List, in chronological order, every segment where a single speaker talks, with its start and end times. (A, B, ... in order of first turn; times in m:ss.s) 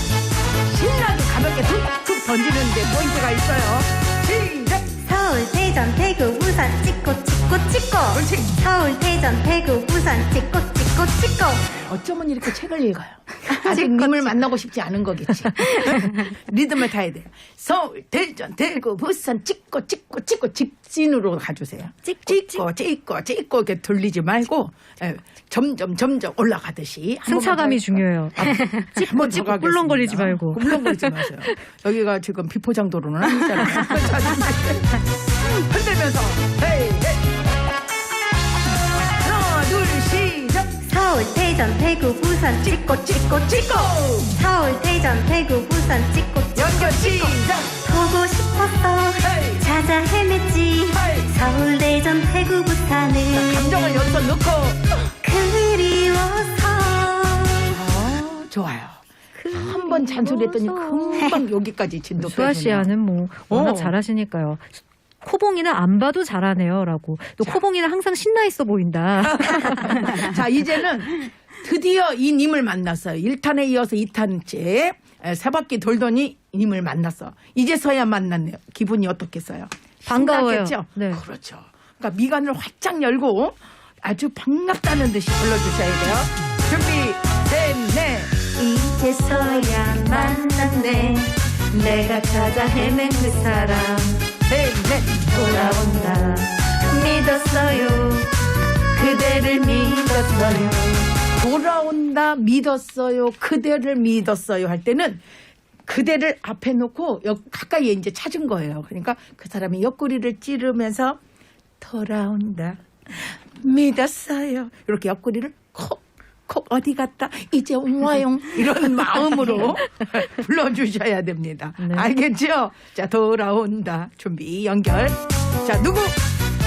0:00.6-0:05.0 A
0:05.0-0:11.6 B
0:08.1-0:08.6 A
0:11.8-0:37.3 A
0:22.1-0:22.6 C
0:27.2-0:31.3 C
0:39.2-0:40.8 A
0:40.8-0:53.8 B
0:42.6-0:44.4 A
0:46.5-0:47.8 A
0:49.2-0:49.7 A
0:50.9-0:51.3 A
0:53.3-0:55.1 A
0:55.2-0:57.8 B
0:57.7-1:02.9 A
0:59.4-1:01.4 C
1:02.2-1:10.3 C
1:03.5-1:03.9 A
1:09.2-1:28.6 A
1:20.1-1:21.2 C
1:28.6-1:34.2 B
1:34.5-1:35.9 A
1:35.3-1:38.3 B
1:38.9-1:41.1 B
1:41.3-1:45.2 A
1:45.8-1:51.2 A
1:51.8-2:06.2 A
2:01.8-2:02.1 C